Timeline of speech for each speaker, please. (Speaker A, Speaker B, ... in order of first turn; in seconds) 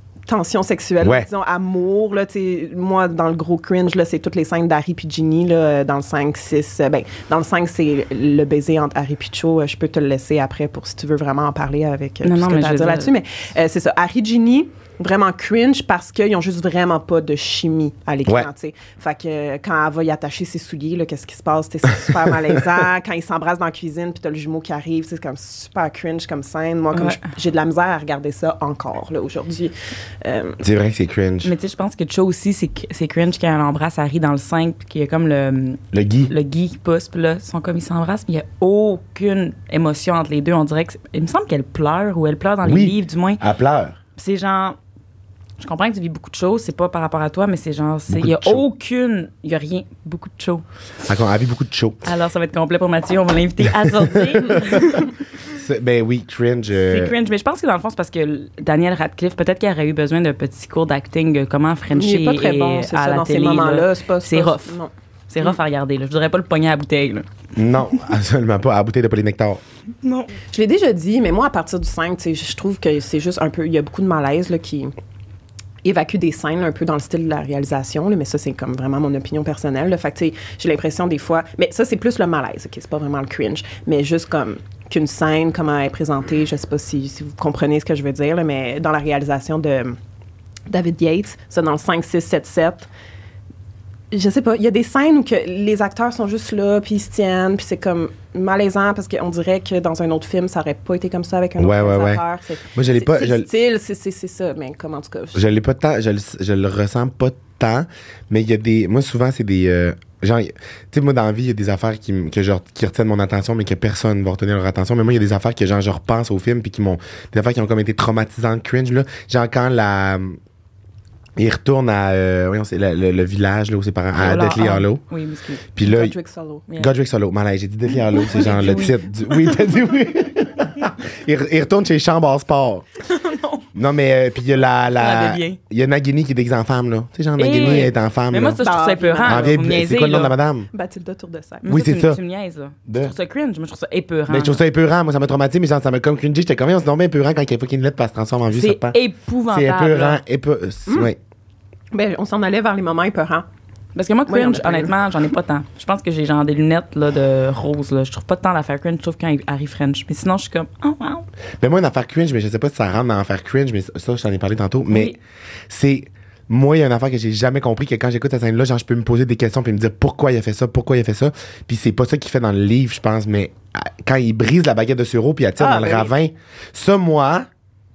Speaker A: 0.3-30.6, 61.9-64.9, 70.5-74.9, 75.8-90.0, 90.7-92.9, 94.1-105.4, 125.8-126.6, 138.6-139.5, 140.7-141.7, 151.9-153.4, 154.3-154.9, 175.6-176.1
Speaker B: 1.0-1.3, 30.6-31.5, 35.9-36.3, 42.6-44.0, 48.1-48.6, 51.0-52.1, 54.1-57.1, 67.5-69.6, 101.6-102.2, 102.7-103.5, 105.3-120.4, 121.4-125.0, 125.7-126.1, 126.7-132.8, 133.7-138.6, 139.2-140.7, 141.7-142.2, 142.9-143.1, 144.3-149.0, 149.5-151.2, 161.6-165.1, 165.7-177.5
Speaker C: 12.2-13.1, 26.9-27.2, 31.4-43.4, 44.2-44.8, 45.6-50.6, 52.0-55.1, 56.7-64.8, 65.3-67.2, 70.0-70.3, 124.2-125.7, 128.0-129.6, 133.1-133.6, 134.9-135.6, 137.4-140.3, 141.6-144.6, 148.5-150.2, 153.9-161.2, 164.9-165.2